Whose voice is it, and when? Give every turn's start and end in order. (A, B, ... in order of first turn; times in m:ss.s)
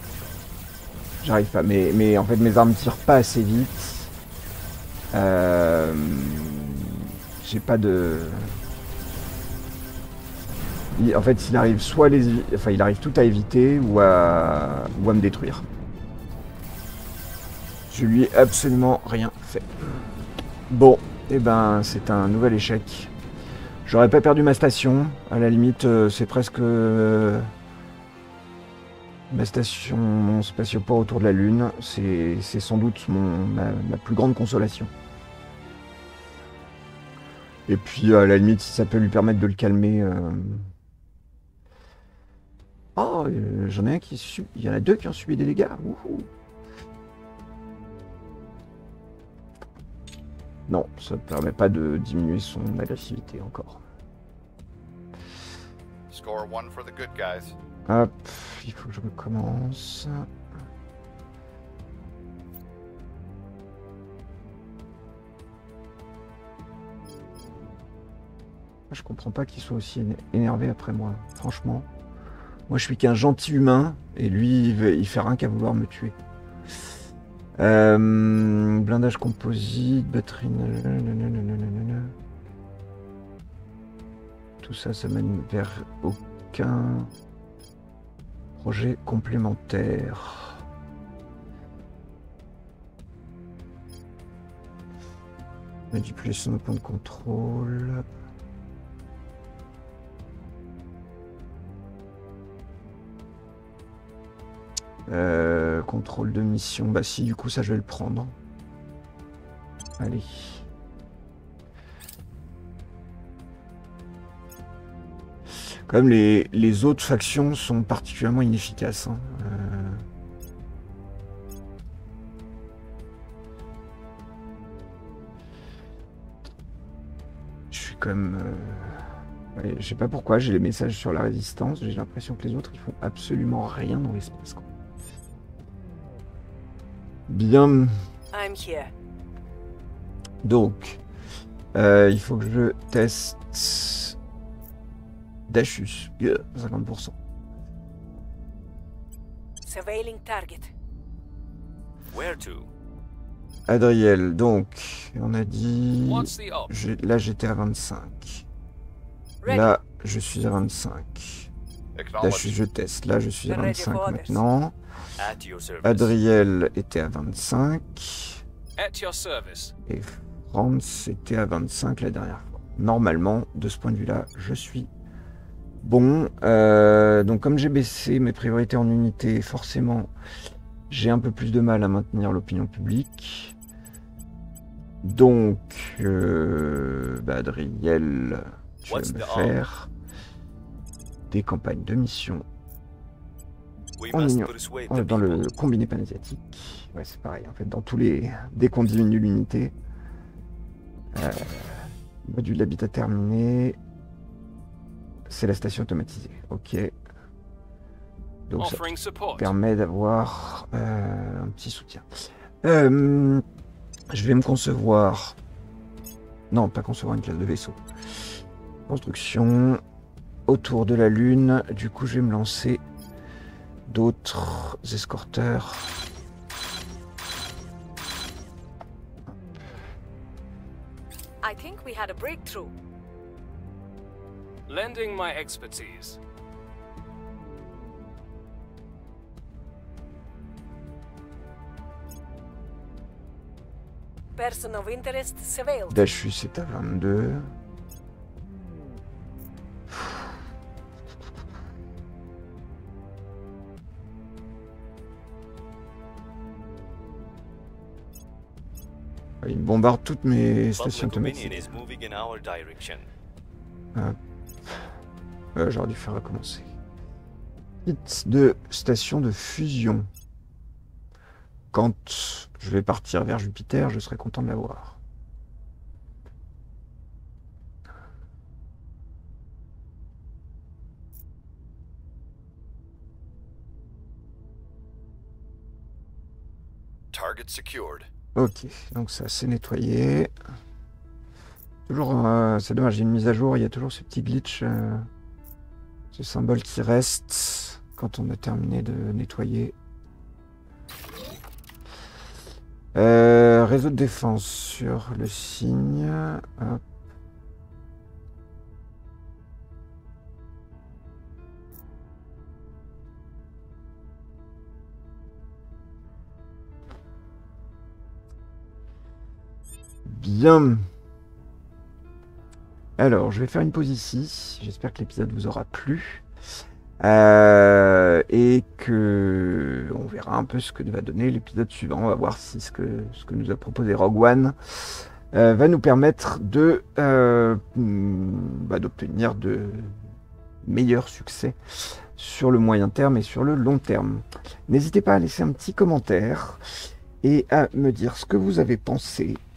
0:01.2-0:04.1 A
0:05.1-0:08.6 A
0:10.9-0:15.6 A
0:17.9-0:20.1 A
0:20.7-0:23.1 A
0:23.8-0:27.5 A
0:29.3-0:34.9 A
0:37.7-0:40.7 A
0:43.0-0:46.3 A
0:50.7-0:53.8 A
0:56.1-0:57.6 B
0:57.9-1:00.2 A
1:08.9-1:11.9 A
1:12.7-1:16.2 A
1:17.6-1:22.1 A
1:24.6-1:27.1 A
1:28.6-1:30.6 A
1:35.9-1:38.0 A
1:45.1-1:48.3 A
1:50.0-1:50.6 A
1:55.9-2:00.0 A
2:07.7-2:14.7 A
2:17.3-2:18.0 A
2:18.3-2:18.9 C
2:20.4-2:21.0 A
2:21.7-2:24.2 A
2:25.5-2:27.2 A
2:29.6-2:30.7 C
2:32.1-2:32.7 D
2:33.7-2:38.4 A
2:36.0-2:36.7 E
2:39.4-2:39.8 C
2:39.4-2:41.5 A
2:42.0-2:42.6 B
2:42.2-2:44.7 A
2:43.5-2:44.4 C
2:45.2-2:46.2 D
2:45.8-2:48.4 A
2:48.8-2:49.7 E
2:49.9-2:54.9 A
2:55.8-3:00.1 A
3:00.9-3:03.6 A
3:05.0-3:09.9 A
3:08.8-3:09.6 D
3:11.3-3:12.4 A
3:14.0-3:15.5 D
3:14.1-3:19.7 A
3:21.1-3:23.8 A
3:25.3-3:27.0 A
3:28.5-3:32.1 A
3:28.6-3:29.5 E
3:32.6-3:33.4 A
3:34.1-3:35.4 A
3:36.5-3:37.8 A
3:38.9-3:39.8 A
3:40.5-3:42.8 A
3:43.8-3:45.9 A
3:51.4-3:52.7 C
3:54.7-3:56.2 E
4:04.4-4:06.0 C
4:05.9-4:07.5 A
4:19.4-4:21.7 A
4:20.8-4:23.1 D
4:25.5-4:26.7 A
4:27.8-4:30.1 A
4:31.7-4:35.0 A
4:47.1-4:48.1 B
4:48.3-4:50.3 A
4:51.9-4:55.1 A
4:56.1-4:59.8 A
5:02.9-5:06.8 A
5:20.0-5:20.9 A
5:23.0-5:26.2 A
5:27.0-5:40.0 A
5:40.6-5:41.6 A
5:42.1-5:46.6 A
5:47.2-5:49.4 A